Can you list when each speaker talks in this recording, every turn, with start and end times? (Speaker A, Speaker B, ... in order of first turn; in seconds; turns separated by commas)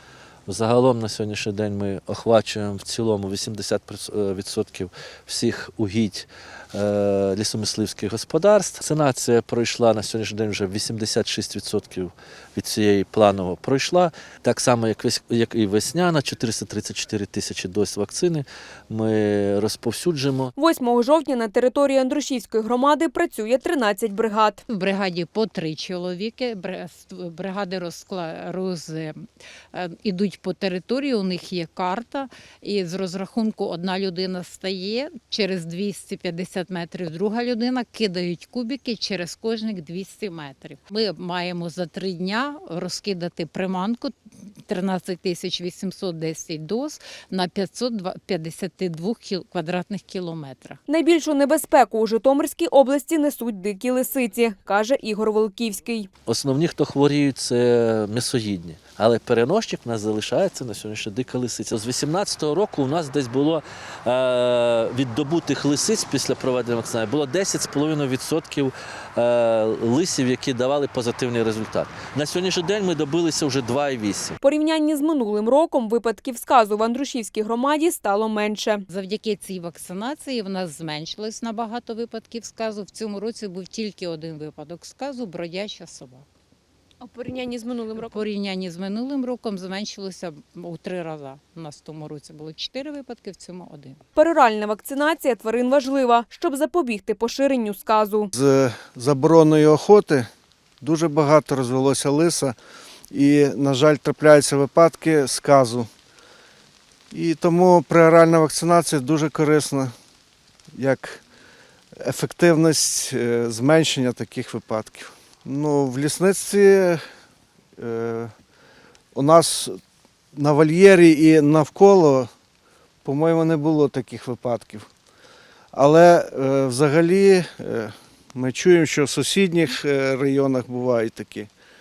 Speaker A: 0.5-20.5, Speaker B: 20.6-24.6, Speaker C: 24.7-50.8, Speaker B: 50.9-56.1, Speaker A: 56.2-74.4, Speaker B: 74.4-78.8, Speaker C: 78.9-86.3, Speaker B: 87.0-88.2, Speaker C: 88.0-94.0, Speaker B: 94.2-98.3, Speaker D: 98.3-100.3, Speaker D: 100.8-102.5, Speaker D: 103.1-105.9, Speaker D: 107.1-109.9, Speaker D: 110.7-111.2, Speaker D: 112.0-117.0, Speaker D: 117.8-118.3, Speaker D: 119.1-119.8, Speaker D: 120.3-122.3, Speaker D: 123.0-124.9, Speaker D: 125.7-131.5